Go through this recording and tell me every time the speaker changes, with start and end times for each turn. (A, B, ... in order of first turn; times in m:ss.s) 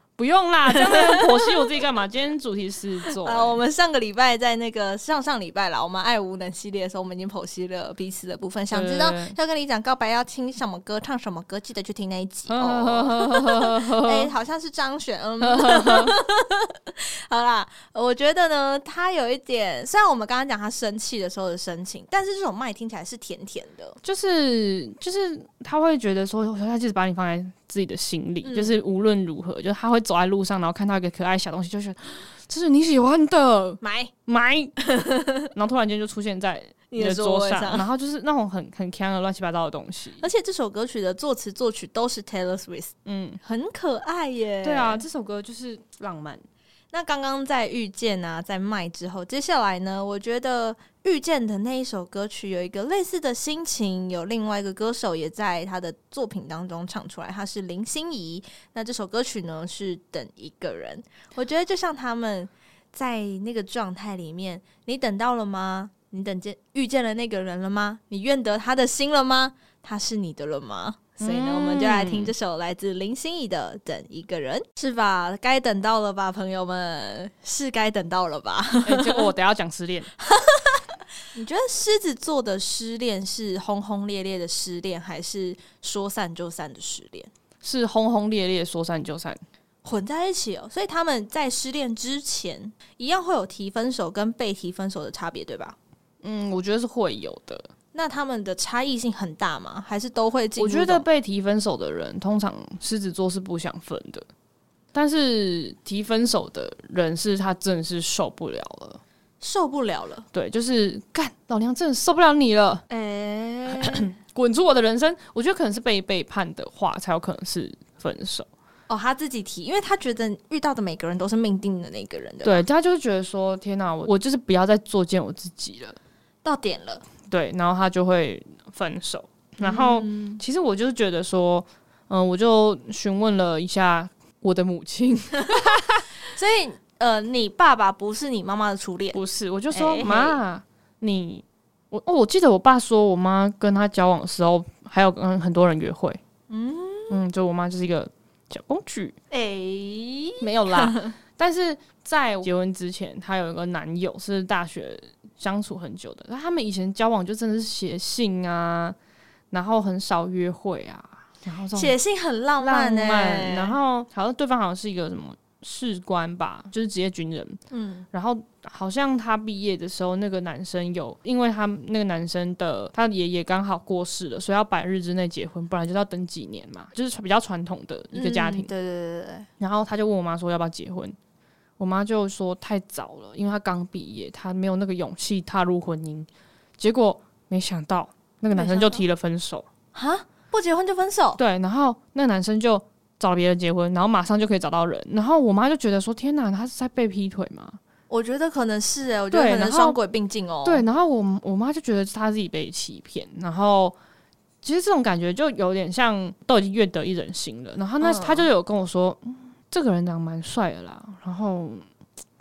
0:00.2-0:03.6 A
0:00.7-0:01.6 B
0:03.1-0:24.0 B
0:08.7-0:09.4 A
0:12.5-0:14.3 A
0:15.4-0:16.1 A
0:24.0-0:34.8 A
0:28.4-0:28.8 B
0:33.8-0:34.1 B
0:34.8-0:35.5 B
0:35.5-0:40.3 A
0:36.9-0:37.9 B
0:40.2-0:45.0 B
0:43.0-0:43.4 A
0:44.6-0:46.4 A
0:46.9-1:19.3 B
1:11.2-1:12.3 A
1:18.8-1:20.1 A
1:20.2-1:27.3 B
1:27.6-1:29.4 A
1:29.8-1:35.8 B
1:36.2-1:37.7 A
1:37.9-1:41.1 B
1:40.6-1:44.3 A
1:44.9-1:49.0 A
1:49.4-1:50.3 B
1:50.3-1:52.8 A
1:52.9-1:54.1 B
1:53.7-1:58.5 A
1:58.9-2:02.6 B
2:02.4-2:06.0 A
2:06.4-2:07.0 B
2:07.3-2:16.0 A
2:09.6-2:10.4 B
2:16.3-2:20.4 B
2:19.1-2:26.2 A
2:26.5-2:27.2 B
2:27.1-2:29.2 A
2:29.3-2:31.1 B
2:30.4-2:39.0 A
2:39.5-2:42.0 A
2:41.8-2:43.8 B
2:42.6-2:47.6 A
2:47.7-2:48.0 B
2:48.1-2:58.7 A
2:58.1-2:59.5 B
2:59.6-3:01.2 A
3:01.8-3:09.6 A
3:08.5-3:09.0 B
3:09.9-3:11.4 B
3:11.4-3:17.8 A
3:18.1-3:20.8 B
3:19.3-3:20.0 A
3:20.6-3:24.0 A
3:24.6-3:31.8 A
3:28.0-3:28.5 B